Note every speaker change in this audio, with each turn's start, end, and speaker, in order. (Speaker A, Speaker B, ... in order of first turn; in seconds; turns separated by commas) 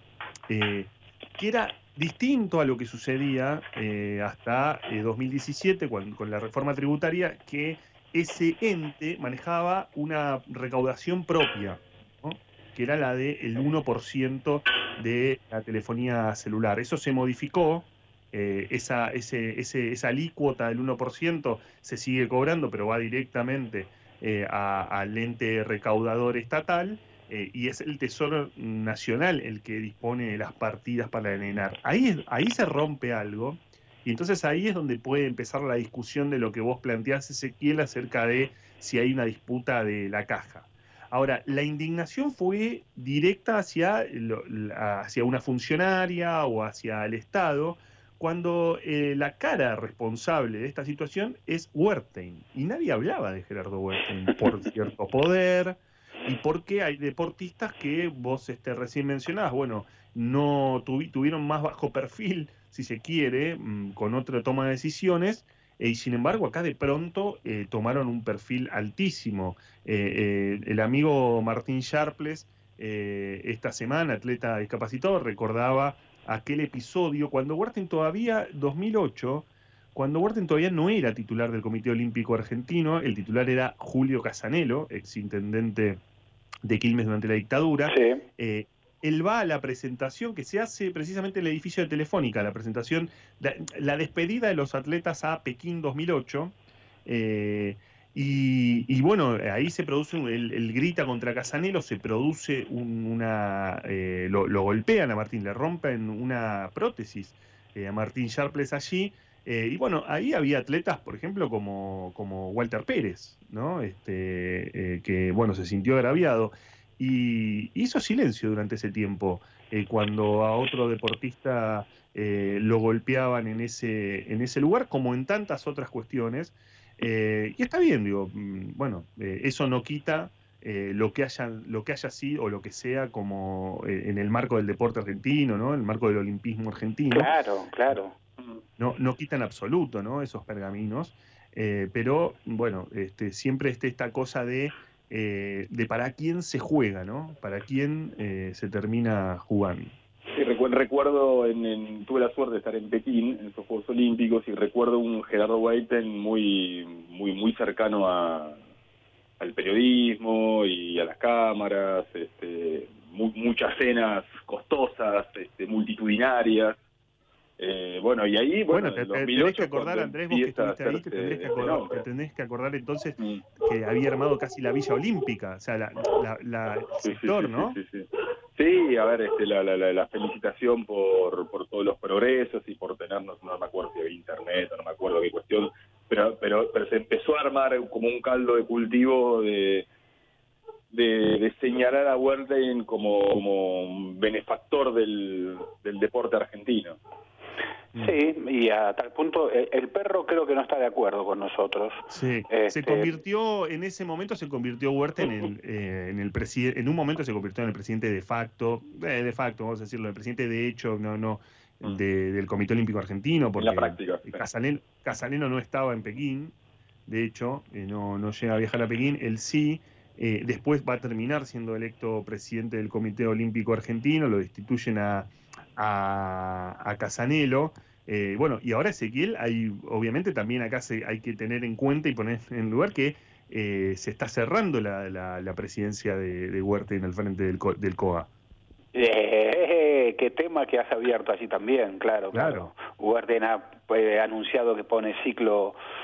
Speaker A: 0.5-86.0, Speaker A: 86.6-96.5, Speaker B: 87.9-88.2, Speaker A: 97.1-137.3, Speaker B: 137.1-138.1, Speaker A: 138.8-149.9, Speaker C: 150.4-158.6, Speaker C: 159.4-166.8, Speaker C: 167.6-172.0, Speaker A: 168.7-177.8, Speaker C: 173.2-173.5, Speaker C: 177.0-189.9, Speaker C: 190.9-197.0, Speaker B: 198.0-203.1, Speaker A: 202.1-216.5, Speaker C: 213.6-214.4, Speaker A: 217.1-238.3, Speaker B: 238.9-245.8, Speaker A: 242.3-242.7